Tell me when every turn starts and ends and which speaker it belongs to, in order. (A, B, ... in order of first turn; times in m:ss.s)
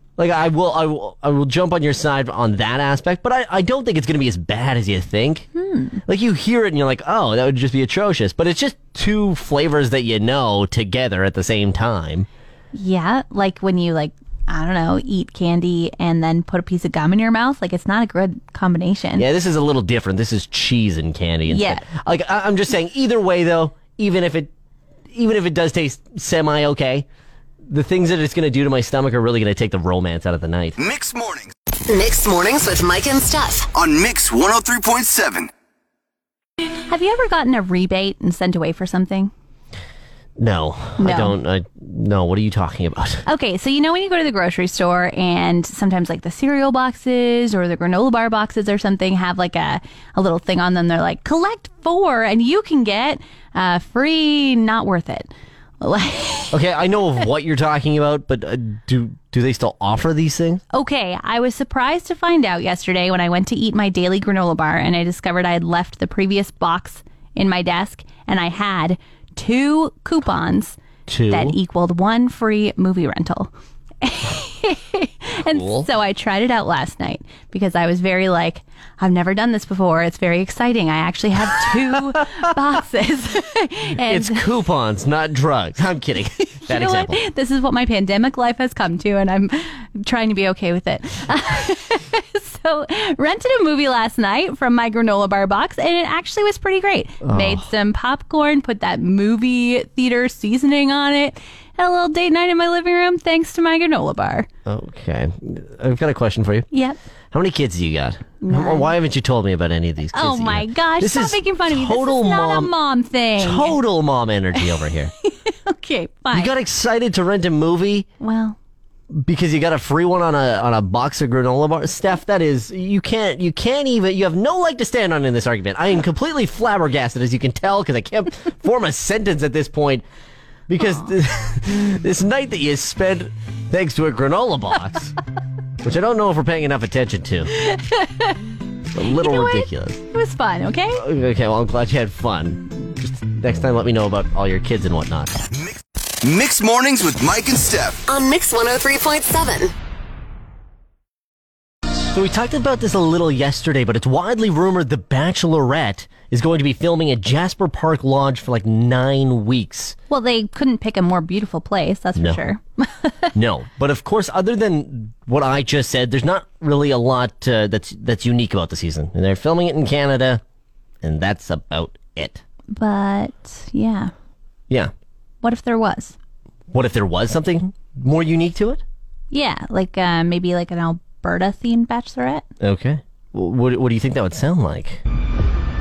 0:00.2-0:05.5 A
0:05.6-0:06.0 B
0:06.1-0:12.3 A
0:12.7-0:19.2 B
0:19.2-0:24.5 A
0:21.5-0:21.9 B
0:25.1-0:27.1 A
0:27.7-0:30.8 A
0:30.8-0:31.5 C
0:31.9-0:33.7 D
0:33.7-0:35.5 C
0:36.9-0:39.3 B
0:40.4-0:43.2 A
0:41.0-0:41.4 B
0:43.3-0:56.6 B
0:56.5-1:00.6 A
1:00.7-1:10.8 B
1:11.1-1:11.6 A
1:11.3-1:13.5 B
1:14.0-1:24.4 B
1:15.5-1:15.9 A
1:24.0-1:27.2 A
1:26.6-1:44.5 B
1:37.2-1:37.7 A
1:44.7-1:46.7 A
1:46.7-1:47.0 B
1:47.3-1:52.7 A
1:48.4-1:48.9 B
1:50.1-1:53.8 B
1:53.4-1:55.1 A
1:55.2-1:56.5 B
1:56.3-1:58.1 A
1:58.2-1:58.6 B
1:59.1-2:10.0 A
2:10.7-2:15.2 A
2:15.8-2:17.5 A
2:17.5-2:18.4 B
2:18.9-2:20.0 A
2:19.1-2:21.0 B
2:21.0-2:25.3 A
2:25.5-2:28.0 C
2:28.1-2:29.7 D
2:32.1-2:40.0 A
2:40.1-2:43.3 B
2:42.2-2:42.4 A
2:43.4-2:50.4 A
2:51.0-2:52.4 A
2:52.7-2:54.1 B
2:55.4-2:56.2 B
2:56.7-2:58.8 A
2:59.3-3:02.4 B
3:02.6-3:05.0 A